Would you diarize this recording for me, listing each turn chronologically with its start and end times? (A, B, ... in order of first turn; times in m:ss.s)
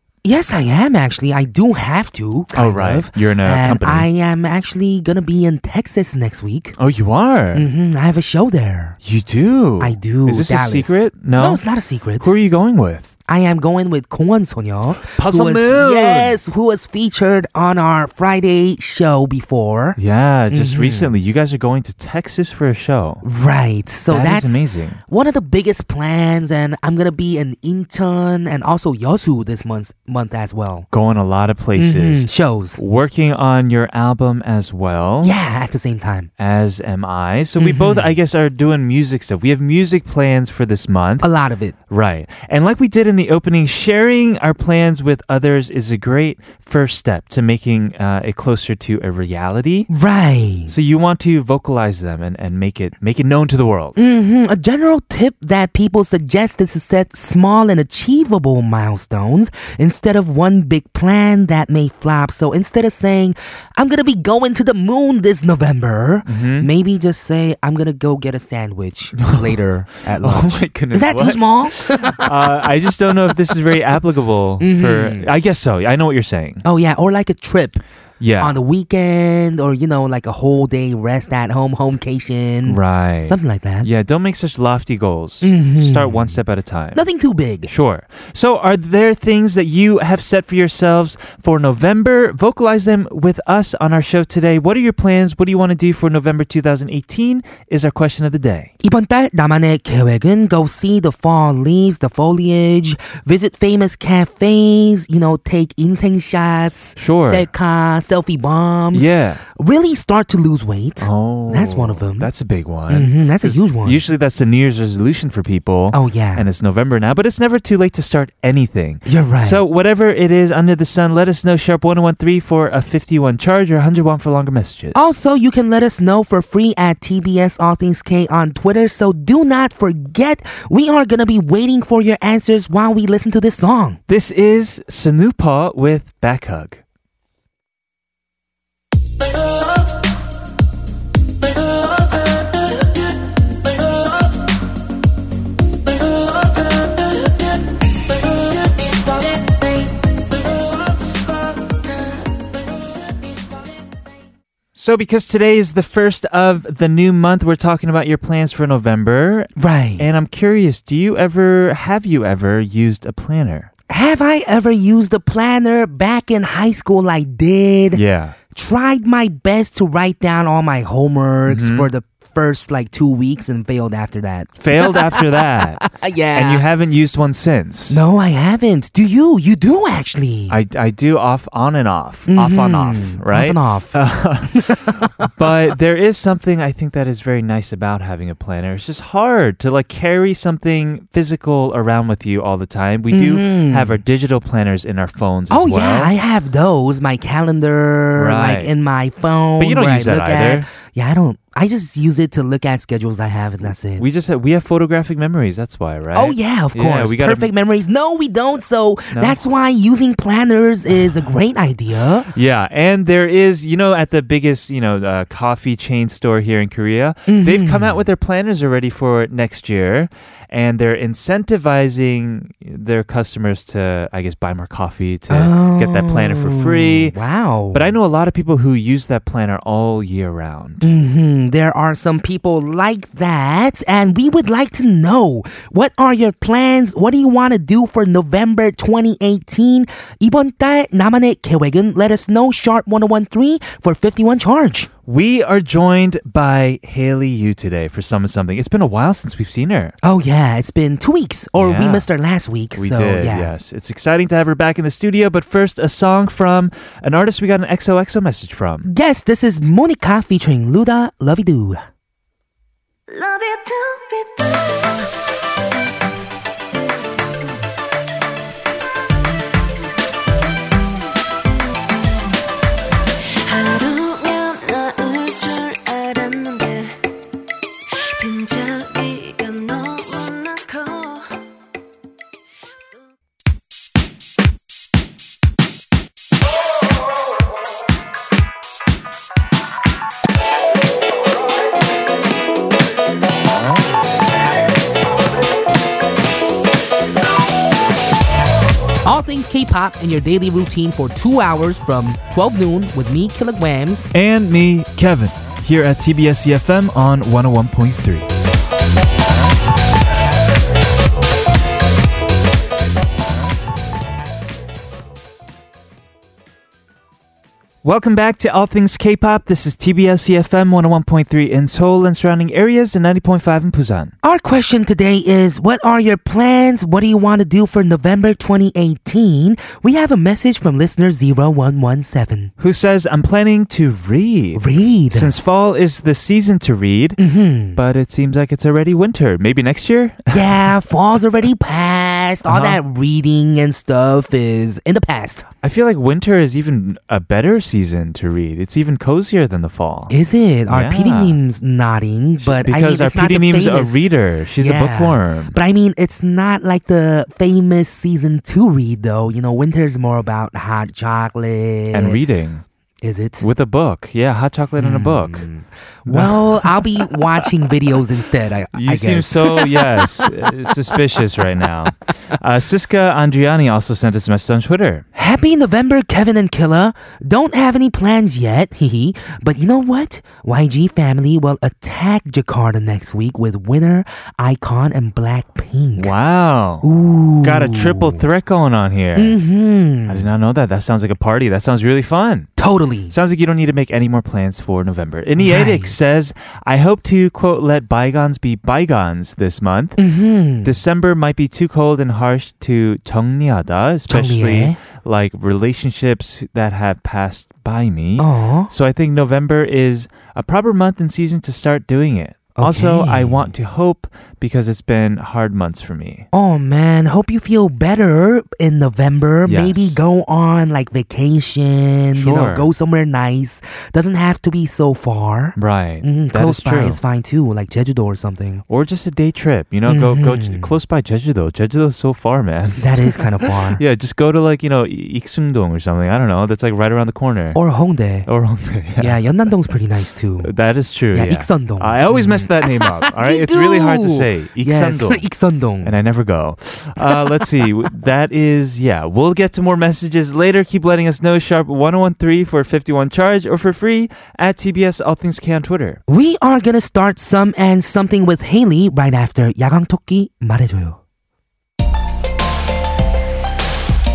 0:00.2-0:06.8 A
0:02.5-0:04.1 B
0:06.8-0:07.7 B
0:07.5-0:09.0 A
0:09.0-0:11.6 B
0:09.8-0:12.3 A
0:12.2-0:13.1 B
0:13.3-0:20.0 A
0:15.1-0:16.4 B
0:20.0-0:23.2 B
0:20.5-0:21.1 A
0:23.2-0:30.9 A
0:24.1-0:25.0 B
0:30.9-0:35.4 B
0:31.8-0:32.8 A
0:35.2-0:36.3 A
0:36.4-0:41.3 B
0:37.6-0:38.1 A
0:41.2-0:41.8 A
0:41.9-0:49.9 B
0:49.9-0:50.7 A
0:50.7-0:54.0 B
0:54.0-1:12.5 A
1:06.3-1:06.7 B
1:09.2-1:09.6 B
1:10.2-1:16.6 B
1:14.6-1:15.3 A
1:16.6-1:17.8 A
1:18.2-1:18.6 B
1:18.4-1:23.9 A
1:22.7-1:27.0 B
1:25.4-1:26.3 A
1:26.9-1:27.7 A
1:27.7-1:38.7 B
1:38.8-1:52.3 A
1:47.0-1:47.5 B
1:48.9-1:49.4 B
1:51.0-2:05.1 B
1:52.9-1:54.0 A
1:55.9-1:56.5 A
1:59.1-1:59.6 A
2:04.9-2:14.0 A
2:14.1-2:16.8 B
2:34.8-2:43.7 B
2:39.6-2:40.1 A
2:43.9-2:48.0 A
2:47.9-2:48.4 B
2:48.5-2:56.6 A
2:51.5-2:51.9 B
2:54.6-2:58.0 B
2:57.9-3:00.6 A
3:00.5-3:16.1 B
3:02.3-3:05.0 A
3:13.1-3:14.0 A
3:15.5-3:24.1 A
3:18.2-3:18.7 B
3:19.6-3:20.7 B
3:24.0-3:27.5 B
3:26.1-3:32.3 A
3:29.1-3:29.4 B
3:32.3-3:47.2 B
3:37.3-3:38.0 A
3:45.3-3:48.0 A
3:47.7-3:50.9 B
3:50.8-4:04.9 A
4:05.1-4:09.9 B
4:10.0-4:13.5 A
4:11.6-4:12.1 B
4:12.8-4:18.9 B
4:18.8-4:21.8 A
4:23.1-4:24.7 C
4:33.5-4:36.9 C
4:38.2-4:41.2 C
4:59.0-5:04.1 A
5:04.1-5:08.3 B
5:17.8-5:24.1 B
5:24.2-5:32.5 A
5:32.6-5:37.2 B
5:34.6-5:35.3 A
5:37.2-5:37.8 A
5:37.8-5:40.5 B
5:40.3-5:45.4 A
5:42.5-5:42.8 B
5:45.6-5:50.1 B
5:50.1-5:54.1 A
5:50.7-5:51.4 B
5:52.4-5:55.6 B
5:54.6-6:02.2 A
6:01.9-6:02.6 B
6:03.0-6:03.5 A
6:03.4-6:05.5 B
6:04.8-6:10.3 A
6:06.1-6:07.0 B
6:08.7-6:15.0 B
6:15.2-6:26.1 A
6:26.0-6:26.9 B
6:26.8-6:28.2 A
6:27.4-6:29.4 B
6:29.2-6:30.3 A
6:30.1-6:32.5 B
6:32.6-6:33.1 A
6:33.1-6:40.0 B
6:35.4-6:36.0 A
6:40.0-6:40.8 A
6:40.6-6:56.3 B
6:44.1-6:44.8 A
6:48.2-6:48.7 A
6:52.6-6:53.5 A
6:56.3-7:08.6 A
6:59.4-7:00.0 B
7:02.2-7:02.7 B
7:05.6-7:07.0 B
7:08.7-7:17.6 B
7:09.9-7:10.7 A
7:12.8-7:13.8 A
7:17.6-7:18.3 A
7:18.3-7:19.2 B
7:19.0-7:20.5 A
7:20.4-7:25.3 B
7:21.1-7:25.9 A
7:25.8-7:36.0 B
7:27.0-7:27.5 A
7:36.1-7:41.0 A